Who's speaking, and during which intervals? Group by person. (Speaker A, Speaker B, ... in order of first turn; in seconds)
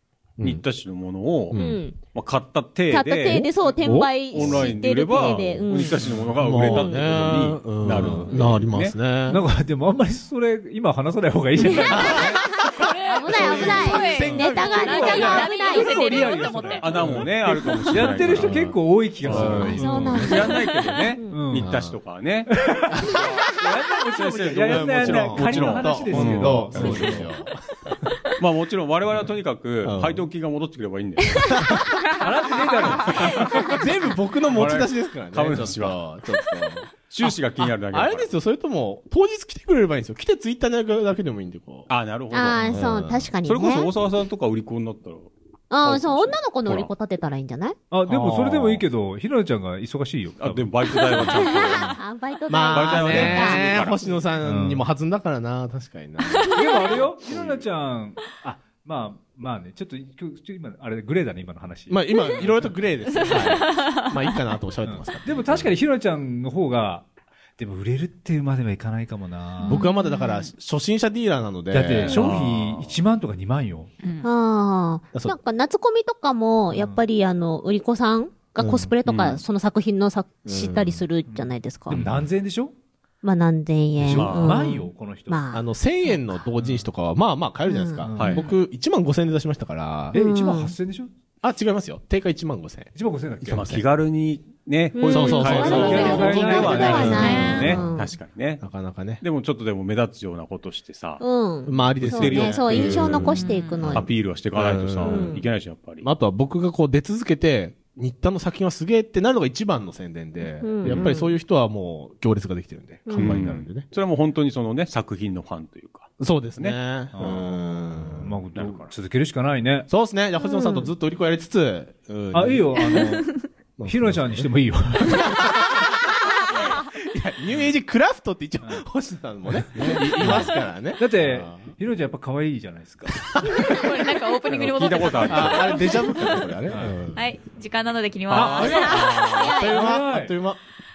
Speaker A: 0.4-0.6, 1.5-1.9, 3.3-4.7, 6.3-9.4, 11.7-15.4, 17.0-17.4, 17.9-20.4, 21.5-22.0, 22.9-23.2, 24.6-28.1, 29.8-30.3, 31.3-32.0, 32.8-41.9, 42.6-43.3, 48.1-48.9, 52.5-56.6, 61.9-65.8, 69.7-72.5, 78.6-79.0, 80.5-81.1, 85.5-90.2, 91.4-93.8, 95.1-98.0, 98.6-99.2, 101.7-105.4, 106.0-113.9, 116.2-118.4, 119.9-123.2, 123.8-124.5, 125.1-131.8, 133.3-134.1, 135.2-137.3, 138.3-140.6
Speaker B: 0.4-1.6, 2.1-9.0, 11.8-12.6, 13.4-13.9, 16.8-22.5, 23.1-23.5, 24.2-27.3, 28.4-31.5, 33.1-33.6, 34.5-36.2, 37.1-38.3, 41.9-42.8, 43.4-46.9, 50.4-52.0, 52.7-54.2, 57.3-57.7, 72.1-73.0, 79.0-79.4, 84.1-84.6, 88.2-88.5, 93.5-98.6, 99.2-101.2, 102.0-103.4, 103.9-106.1, 113.1-116.8, 118.5-118.9, 134.5-135.9
Speaker C: 1.5-2.0, 2.9-6.1, 6.7-7.2, 8.2-8.6, 13.1-16.0, 19.4-21.4, 42.3-43.9, 45.7-47.8, 51.3-53.9, 74.2-82.0, 83.2-86.5, 87.7-88.2, 90.1-90.8, 95.0-98.1, 101.2-104.1, 105.0-105.5, 110.4-111.3, 113.1-113.4, 120.4-120.9, 139.3-139.9
Speaker D: 6.0-6.3, 7.9-8.3, 9.3-12.1, 13.6-20.4, 21.3-21.7, 22.5-27.3, 32.2-33.2, 47.9-51.4, 54.4-54.9, 56.5-62.7, 64.8-69.8, 71.7-73.9, 76.7-77.0, 81.3-82.7, 84.0-85.4, 86.6-86.9, 88.0-88.5, 90.1-91.1, 93.0-93.7, 95.4-97.7, 117.1-119.9, 122.3-123.3, 123.8-125.4, 128.6-128.9, 129.5-133.2, 136.7-137.1, 138.3-140.4
Speaker E: 12.0-17.2, 31.9-33.8, 51.1-51.9, 56.2-57.1, 62.1-62.5, 63.0-64.5, 69.6-70.5, 74.0-74.3, 96.8-97.6, 103.1-103.9, 122.9-123.5, 133.6-136.6, 137.1-139.8